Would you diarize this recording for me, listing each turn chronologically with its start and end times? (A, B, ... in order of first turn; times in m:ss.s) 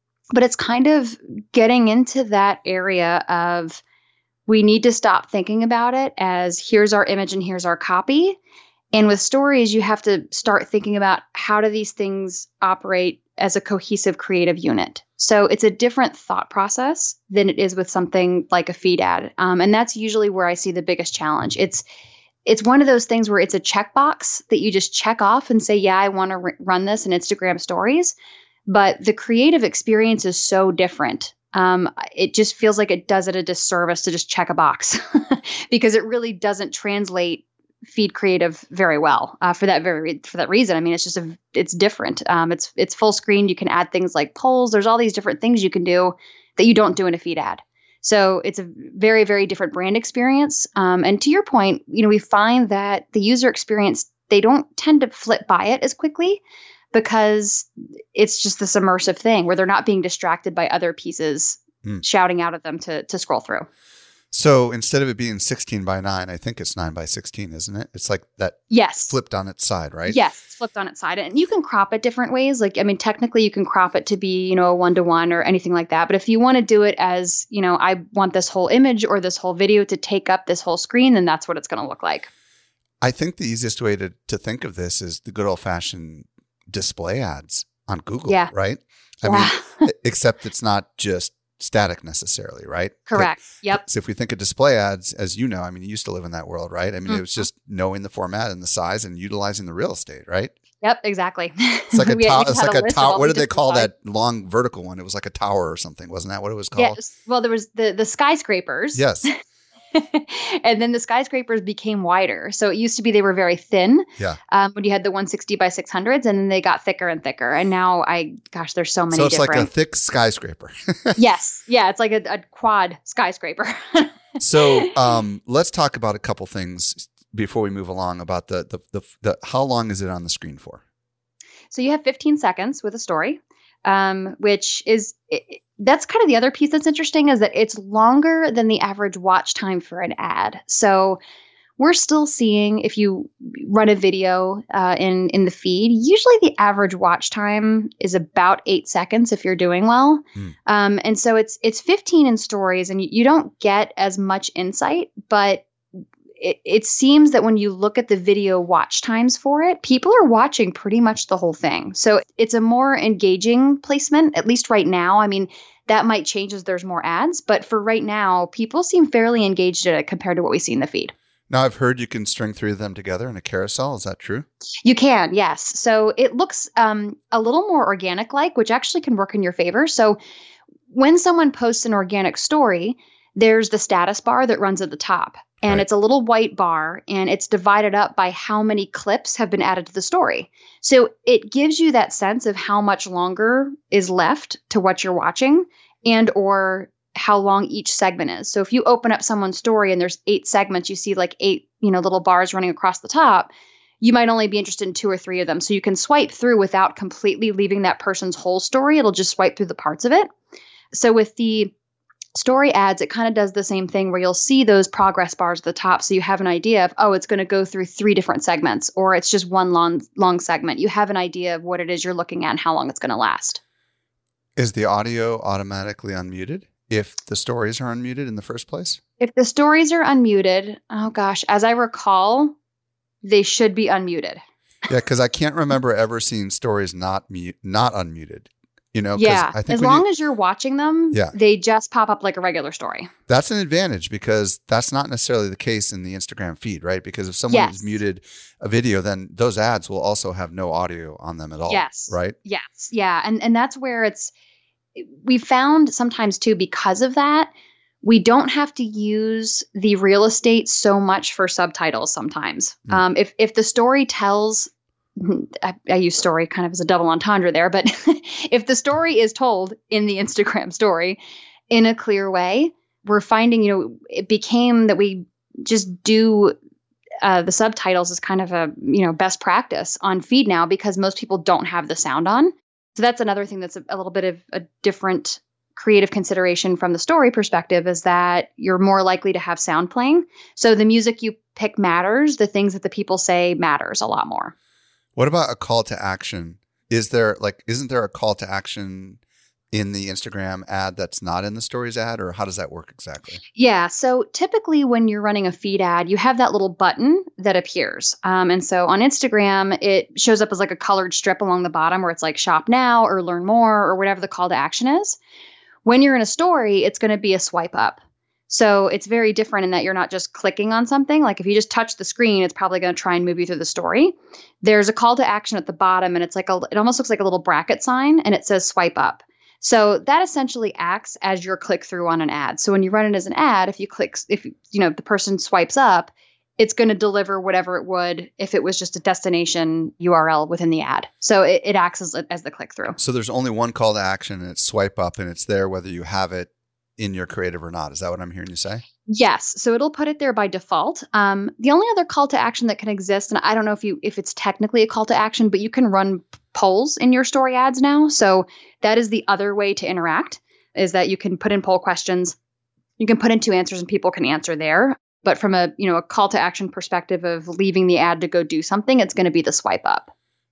0:00.3-0:03.8 A
0:04.5-0:08.4 A
0:08.9-0:21.8 A
0:22.4-0:28.2 A
0:28.7-0:56.4 A
0:56.9-1:03.7 A
1:04.3-1:10.2 B
1:08.7-1:09.1 A
1:10.1-1:22.3 A
1:23.0-1:40.5 B
1:29.2-1:29.9 A
1:33.1-1:33.8 A
1:37.1-1:37.5 A
1:40.8-1:43.9 A
1:41.9-1:47.0 B
1:46.8-1:49.3 A
1:49.0-1:49.3 B
1:49.9-1:59.7 A
1:59.1-2:01.2 B
2:01.2-2:04.9 A
2:04.4-2:10.8 B
2:11.7-2:21.2 A
2:21.8-2:35.7 A
2:36.4-2:51.1 A
2:51.5-2:54.5 B
2:54.8-3:00.2 A
3:00.9-3:30.3 A
3:30.9-3:31.7 A
3:32.4-3:43.6 A
3:44.6-3:49.0 B
3:49.2-3:52.6 A
3:53.2-3:54.4 A
3:54.9-4:00.0 B
3:59.2-4:03.1 A
4:03.3-4:12.4 B
4:07.5-4:08.0 A
4:11.7-4:14.3 A
4:15.0-4:17.5 A
4:18.0-4:31.2 A
4:31.7-4:36.6 A
4:37.2-4:54.5 A
4:55.2-4:59.2 B
4:59.7-5:03.4 B
5:03.6-5:15.2 A
5:15.8-5:43.0 A
5:43.0-5:48.8 B
5:49.1-6:02.4 A
6:03.0-6:10.1 A